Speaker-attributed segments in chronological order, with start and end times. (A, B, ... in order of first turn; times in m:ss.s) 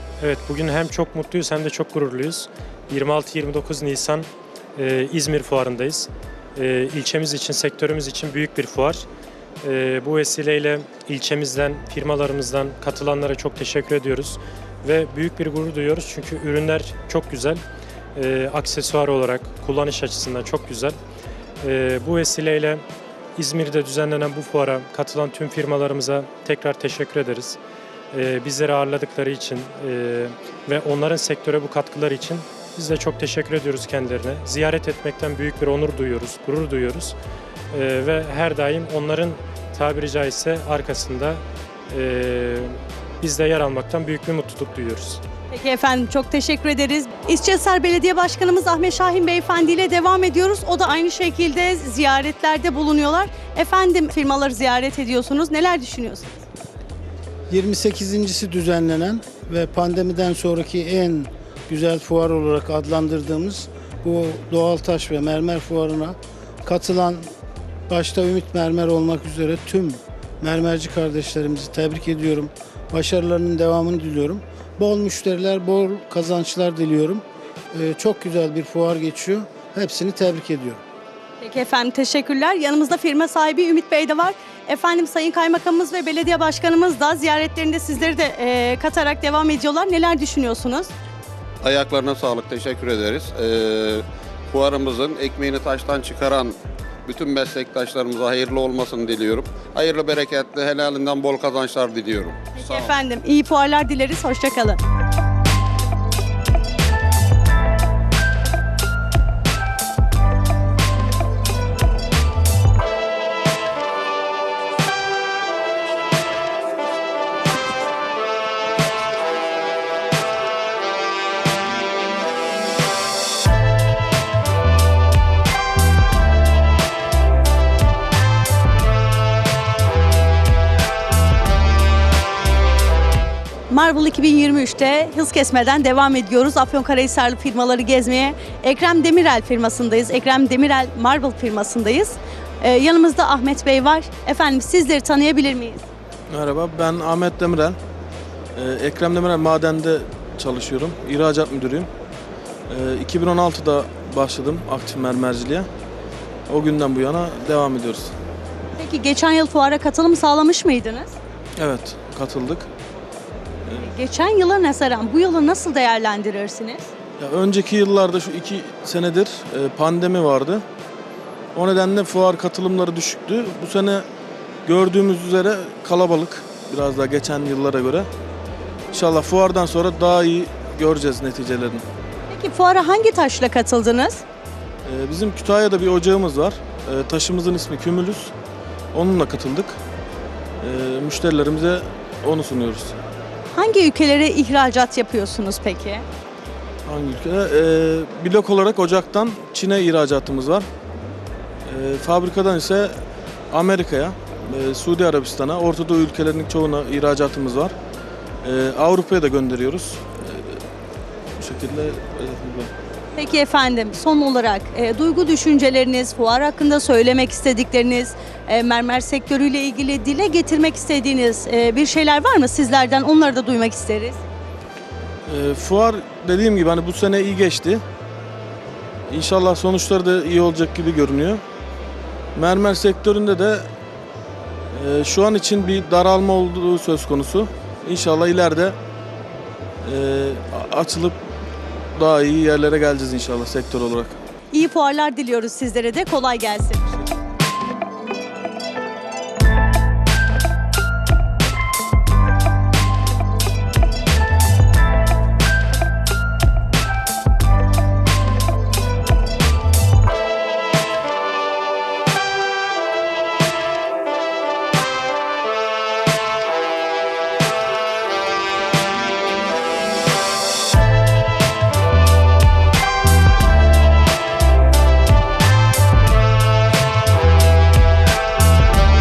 0:00.2-0:09.0 A
0:09.6-0:17.6 A
0:18.1-0:21.0 A
0:21.6-0:22.8 A
0:23.4-0:27.6 A
0:28.1-0:37.1 A
0:37.7-0:45.2 A
0:45.5-0:56.4 B
0:57.5-1:07.3 C
1:07.9-1:20.8 C
1:21.4-1:30.9 B
1:31.6-1:42.9 D
1:42.5-1:44.8 B
2:13.7-2:25.8 B
2:26.3-2:27.8 E
2:28.5-2:31.9 E
2:32.7-2:35.7 E
2:36.5-2:38.2 E
2:38.8-2:41.1 B
2:41.6-2:42.7 E
2:43.9-2:46.9 B
2:47.2-2:50.6 E
2:51.5-2:54.1 E
2:54.6-2:58.1 E
2:58.9-3:01.8 E
3:02.3-3:04.2 B
3:04.8-3:08.3 E
3:08.9-3:09.8 E
3:10.6-3:13.0 E
3:13.5-3:16.0 B
3:16.8-3:20.7 E
3:21.6-3:23.0 E
3:23.5-3:27.7 E
3:28.4-3:30.6 E
3:31.4-3:32.7 E
3:33.2-3:44.2 B
3:45.3-3:47.8 E
3:49.1-3:51.4 E
3:52.3-3:53.7 E
3:54.7-3:58.8 E
3:59.8-4:01.2 E
4:02.0-4:04.2 E
4:04.5-4:06.9 B